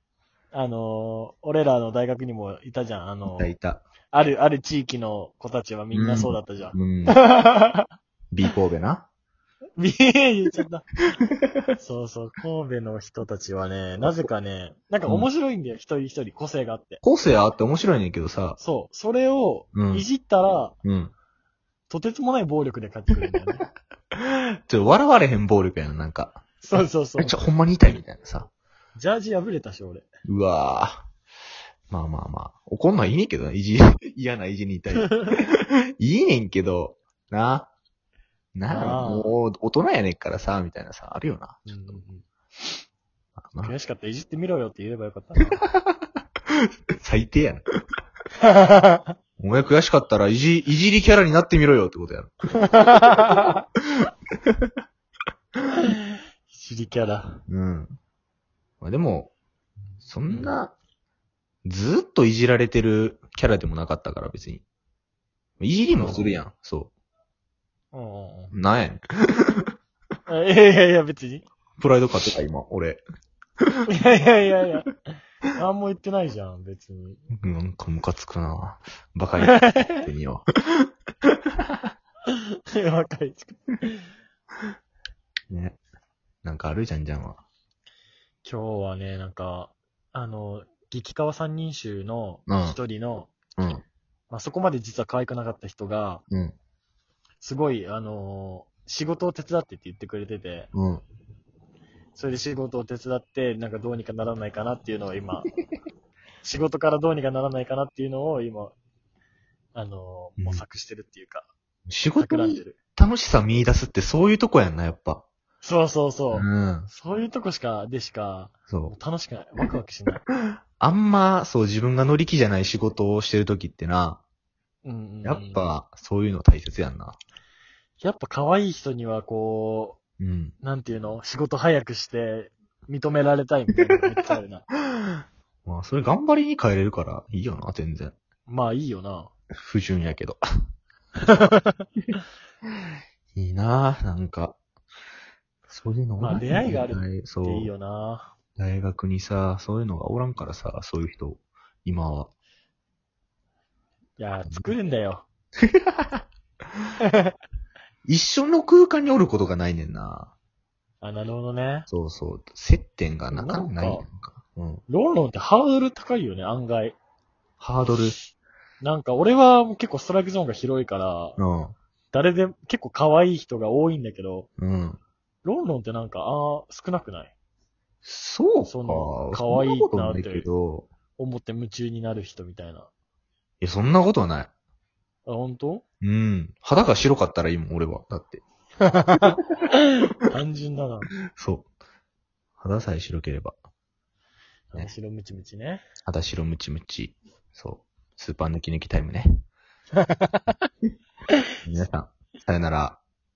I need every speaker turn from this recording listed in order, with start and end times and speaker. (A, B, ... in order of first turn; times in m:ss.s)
0:00.5-0:03.5 A
0:03.3-0:03.8 B
0:04.1-0:07.9 A
0:05.9-0:07.2 B
0:08.3-0:09.1 B
0:09.8-0:10.9 A
0:11.8-0:17.0 A
0:17.0-0:18.6 B
0:18.6-0:20.8 A
0:19.7-0:20.1 B
0:20.8-0:21.1 B
0:21.9-0:23.7 A
0:24.7-0:26.5 B
0:26.6-0:27.4 A
0:27.2-0:28.5 B
0:29.0-0:30.1 A
0:30.2-0:31.1 B
0:31.9-0:37.7 B
0:38.6-0:42.0 B
0:38.7-0:39.3 A
0:41.7-0:42.3 A
0:43.4-0:43.7 B
0:43.6-0:45.6 A
0:47.0-0:47.6 B
0:48.4-0:49.1 A
0:49.4-0:52.4 B
0:52.6-0:53.6 A
0:56.5-0:57.4 A
0:57.5-0:58.0 B
0:58.8-0:59.3 B
1:00.0-1:00.7 B
1:00.3-1:00.6 A
1:01.6-1:04.6 B
1:05.6-1:06.9 B
1:06.0-1:06.4 A
1:07.9-1:08.5 A
1:08.5-1:09.7 B
1:10.3-1:11.5 A
1:11.8-1:13.0 B
1:13.9-1:14.9 A
1:15.6-1:17.2 A
1:17.4-1:20.5 B
1:19.4-1:20.0 A
1:22.7-1:24.0 A
1:25.5-1:25.8 B
1:26.4-1:27.4 B
1:28.4-1:33.4 A
1:32.5-1:32.8 B
1:33.6-1:33.8 B
1:34.3-1:36.2 A
1:36.3-1:36.6 B
1:37.4-1:40.7 A
1:40.7-1:41.0 B
1:42.2-1:45.5 A
1:46.4-1:48.8 A
1:49.7-1:51.5 A
1:50.4-1:50.6 B
1:51.9-1:55.2 B
1:52.2-1:52.8 A
1:55.6-2:00.2 A
1:56.3-1:56.9 B
2:00.8-2:04.2 B
2:04.8-2:05.7 A
2:05.2-2:07.2 B
2:08.0-2:10.0 A
2:10.2-2:10.5 B
2:10.6-2:14.7 A
2:15.6-2:18.1 B
2:18.5-2:19.3 A
2:19.6-2:20.4 B
2:21.2-2:21.9 A
2:23.4-2:24.6 B
2:25.7-2:27.7 B
2:26.2-2:28.3 A
2:28.6-2:32.3 B
2:34.2-2:35.3 A
2:34.5-2:34.7 B
2:35.6-2:36.2 B
2:38.1-2:40.3 B
2:41.0-2:41.9 A
2:41.9-2:44.8 B
2:43.3-2:44.0 A
2:44.9-2:47.0 A
2:47.6-2:48.2 B
2:48.8-2:51.4 A
2:51.4-2:51.8 B
2:52.1-2:54.5 A
2:54.6-2:55.0 B
2:55.4-2:57.3 A
2:58.0-3:00.9 B
2:58.7-3:00.5 A
3:01.2-3:02.9 A
3:03.6-3:04.5 B
3:05.3-3:05.8 A
3:06.0-3:08.4 B
3:08.8-3:11.1 A
3:11.4-3:11.7 B
3:12.6-3:13.6 B
3:14.7-3:15.8 A
3:16.1-3:19.4 B
3:20.0-3:20.6 A
3:21.6-3:23.0 B